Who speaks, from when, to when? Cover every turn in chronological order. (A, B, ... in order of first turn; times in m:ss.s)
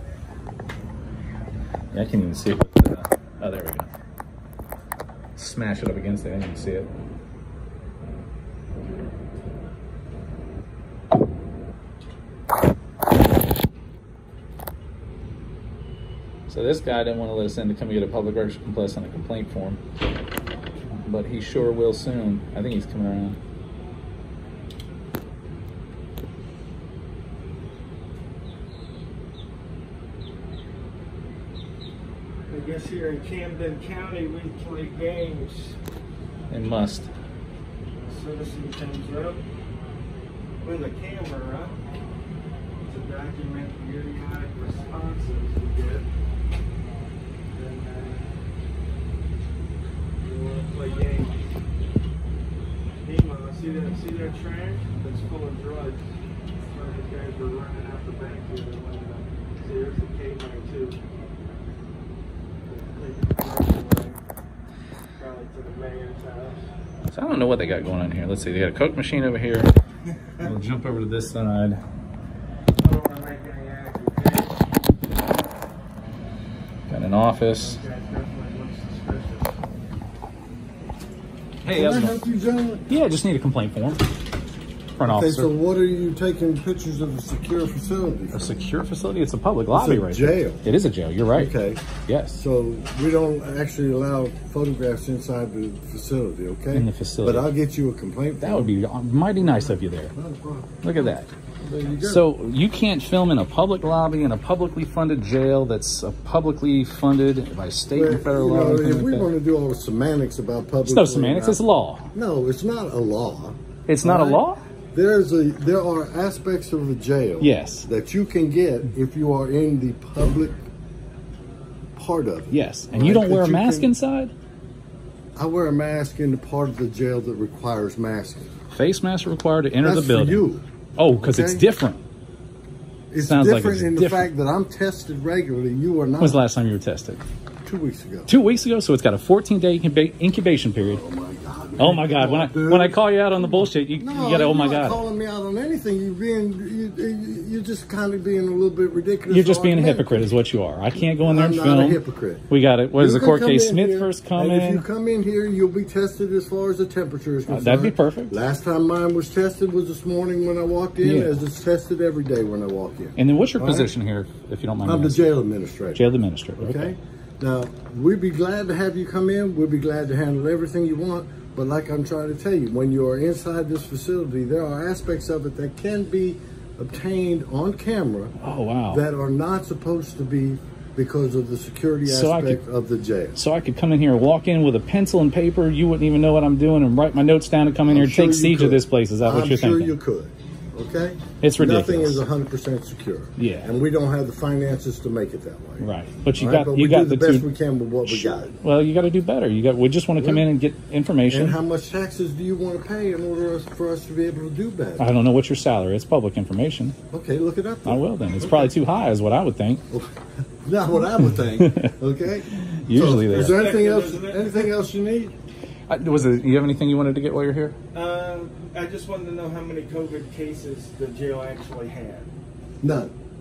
0:01.9-0:03.9 A
0:05.4-0:06.9 A
0:16.5-0:19.8 A
0:21.0-0:23.4 A
0:32.5-0:35.8 B
0:36.5-0:37.1 A
0:38.0-0:39.4 B
0:40.6-0:41.7 B
0:42.8-0:46.1 B
0:47.5-0:48.3 B
0:50.2-0:51.4 B
0:53.0-0:56.0 B
0:56.7-1:01.0 B
1:02.6-1:04.2 B
1:05.2-1:06.6 B
1:07.1-1:09.7 A
1:10.4-1:11.8 A
1:12.8-1:14.6 B
1:16.9-1:17.8 A
1:17.5-1:19.6 B
1:21.6-1:22.2 A
1:21.7-1:22.9 C
1:22.9-1:24.0 A
1:25.0-1:25.5 A
1:25.0-1:28.5 C
1:28.3-1:31.5 A
1:29.7-1:30.7 C
1:31.3-1:31.8 C
1:32.1-1:32.4 A
1:32.3-1:38.7 C
1:36.7-1:37.5 A
1:38.4-1:40.1 A
1:39.4-1:42.3 C
1:40.8-1:41.3 A
1:42.0-1:49.3 A
1:47.9-1:51.6 C
1:50.8-1:52.1 A
1:52.1-2:00.6 C
1:53.9-1:54.6 A
1:57.4-1:57.9 A
2:02.0-2:03.9 C
2:02.5-2:04.3 A
2:05.4-2:08.5 C
2:08.7-2:10.4 A
2:09.8-2:11.6 C
2:11.0-2:12.0 A
2:13.1-2:16.4 C
2:13.2-2:14.3 A
2:16.2-2:17.2 A
2:17.6-2:18.3 C
2:18.3-2:21.0 A
2:20.8-2:30.3 C
2:21.8-2:25.0 A
2:29.3-2:34.8 A
2:31.2-2:32.4 C
2:33.0-2:43.9 C
2:37.5-2:38.4 A
2:41.0-2:41.3 A
2:43.2-2:45.3 A
2:44.8-2:46.0 C
2:45.9-2:46.9 A
2:46.6-2:58.3 C
2:58.4-2:59.0 A
2:58.9-3:03.4 C
3:02.0-3:02.6 A
3:03.4-3:09.9 A
3:07.9-3:18.5 C
3:11.4-3:12.2 A
3:13.4-3:13.7 A
3:15.8-3:17.5 A
3:18.0-3:21.6 A
3:20.2-3:20.4 C
3:21.3-3:25.1 C
3:25.0-3:26.9 A
3:27.1-3:28.8 C
3:27.8-3:29.8 A
3:29.9-3:35.3 C
3:31.5-3:31.9 A
3:32.5-3:33.6 A
3:33.3-3:34.7 B
3:35.9-3:37.7 A
3:37.9-3:42.3 B
3:42.8-3:43.1 C